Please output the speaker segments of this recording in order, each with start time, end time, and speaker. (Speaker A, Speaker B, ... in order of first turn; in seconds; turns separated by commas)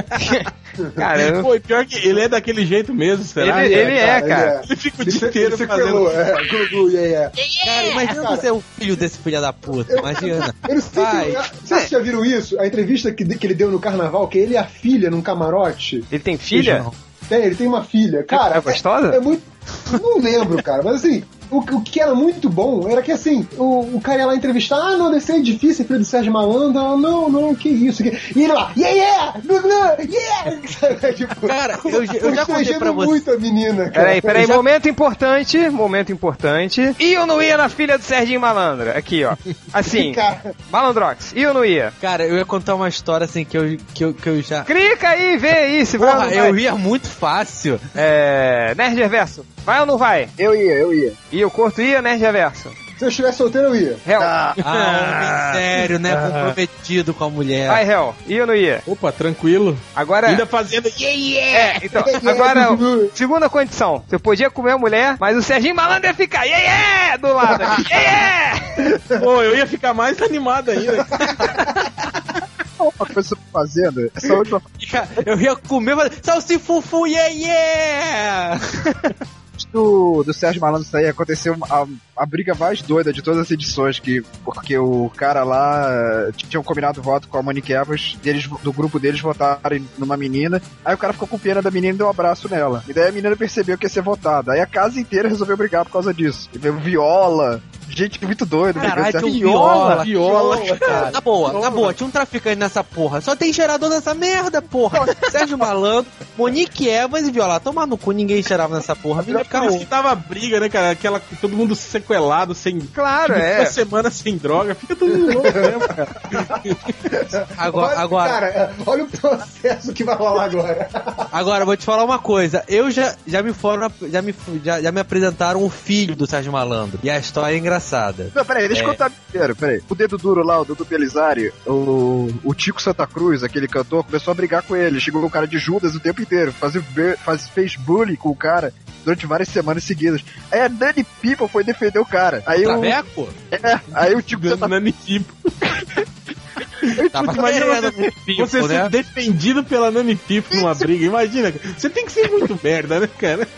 Speaker A: 0.1-1.5, Speaker B: 0.8-1.0, Speaker C: 1.2-6.7, Speaker A: 3.4-4.6, Speaker B: 3.6-7.3, Speaker D: 7.6-11.5, Speaker B: 8.0-8.4, Speaker B: 9.9-16.1, Speaker A: 16.1-16.9, Speaker D: 16.5-16.9, Speaker B: 17.3-34.2, Speaker A: 18.3-19.2, Speaker D: 31.5-33.2, Speaker A: 33.9-42.0, Speaker B: 39.9-40.5, Speaker D: 42.0-44.7, Speaker A: 44.7-46.6, Speaker D: 46.0-48.0, Speaker A: 48.0-50.3, Speaker E: 50.4-51.2, Speaker A: 51.3-52.8, Speaker B: 53.0-54.0, Speaker A: 54.0-54.6, Speaker C: 54.6-56.6, Speaker D: 54.6-57.8, Speaker A: 57.7-58.9, Speaker C: 58.9-61.9, Speaker A: 60.0-60.5, Speaker A: 61.5-68.9, Speaker B: 62.0-63.1, Speaker B: 67.5-67.8, Speaker B: 69.0-69.2, Speaker C: 69.2-71.8, Speaker B: 71.2-71.6, Speaker E: 72.8-74.7, Speaker D: 74.8-78.8, Speaker E: 79.6-99.3, Speaker D: 98.8-100.2, Speaker C: 98.8-101.9, Speaker B: 100.0-101.2, Speaker D: 100.8-109.8, Speaker C: 109.3-116.9, Speaker A: 113.0-113.8, Speaker B: 115.3-115.8, Speaker B: 117.1-121.3, Speaker D: 117.6-118.4, Speaker D: 121.3-129.0, Speaker E: 128.3-143.0, Speaker D: 142.6-143.4, Speaker E: 143.5-144.7, Speaker C: 144.2-146.0, Speaker E: 147.0-147.5, Speaker D: 147.1-148.9, Speaker C: 147.2-153.5